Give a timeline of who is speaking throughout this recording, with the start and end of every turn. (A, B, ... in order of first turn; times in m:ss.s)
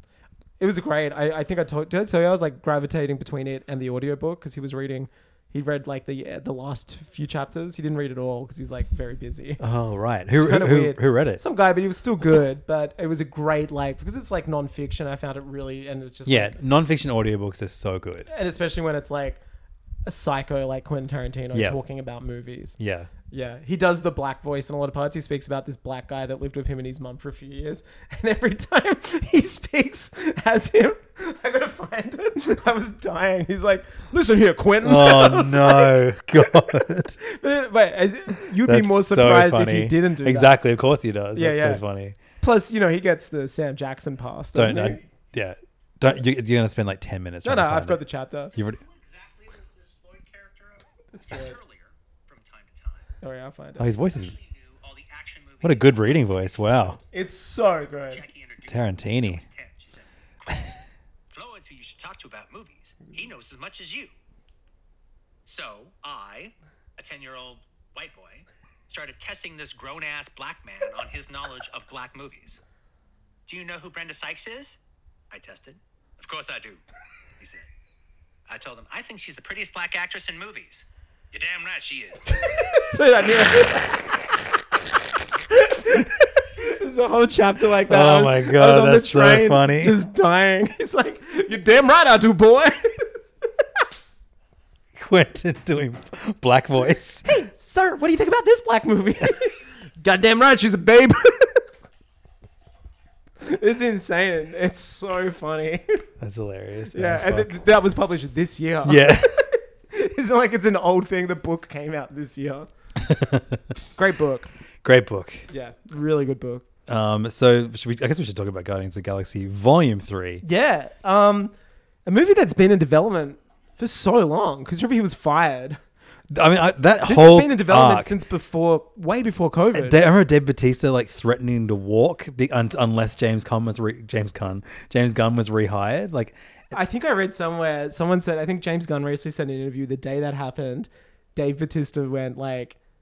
0:00.6-0:09.6 A
0:09.6-0:11.4 B
0:10.4-0:16.6 A
0:16.2-0:18.3 B
0:18.3-0:19.4 A
0:20.0-0:22.8 A
0:21.5-0:21.8 B
0:22.8-0:23.1 B
0:23.3-0:40.5 A
0:34.8-0:37.2 B
0:38.6-0:42.2 B
0:41.3-0:41.8 A
0:42.4-0:45.0 A
0:44.5-0:48.0 B
0:47.4-0:48.5 A
0:48.5-0:48.8 B
0:48.5-0:53.1 C
0:51.1-0:51.6 A
0:53.2-0:53.9 A
0:53.8-0:54.4 B
0:54.0-0:57.0 C
0:55.6-0:57.0 B
0:57.1-0:58.2 A
0:58.0-1:00.7 C
0:58.6-0:59.4 B
1:01.3-1:04.1 C
1:05.4-1:12.6 C
1:13.5-1:14.8 C
1:15.3-1:16.8 C
1:17.4-1:17.6 C
1:18.5-1:22.4 C
1:22.4-1:24.2 A
1:25.5-1:33.1 A
1:27.8-1:30.0 B
1:35.0-1:37.2 B
1:37.2-1:41.6 A
1:43.4-1:46.0 A
1:46.2-1:47.6 B
1:46.9-1:49.2 A
1:48.8-1:49.5 B
1:49.9-1:52.7 A
1:53.0-1:53.6 B
1:53.9-1:54.5 A
1:54.8-1:55.5 B
1:55.5-1:56.6 A
1:56.9-2:00.4 B
2:00.4-2:01.5 A
2:02.0-2:05.8 A
2:06.3-2:08.1 B
2:07.0-2:10.0 A
2:09.7-2:16.4 B
2:16.7-2:22.8 A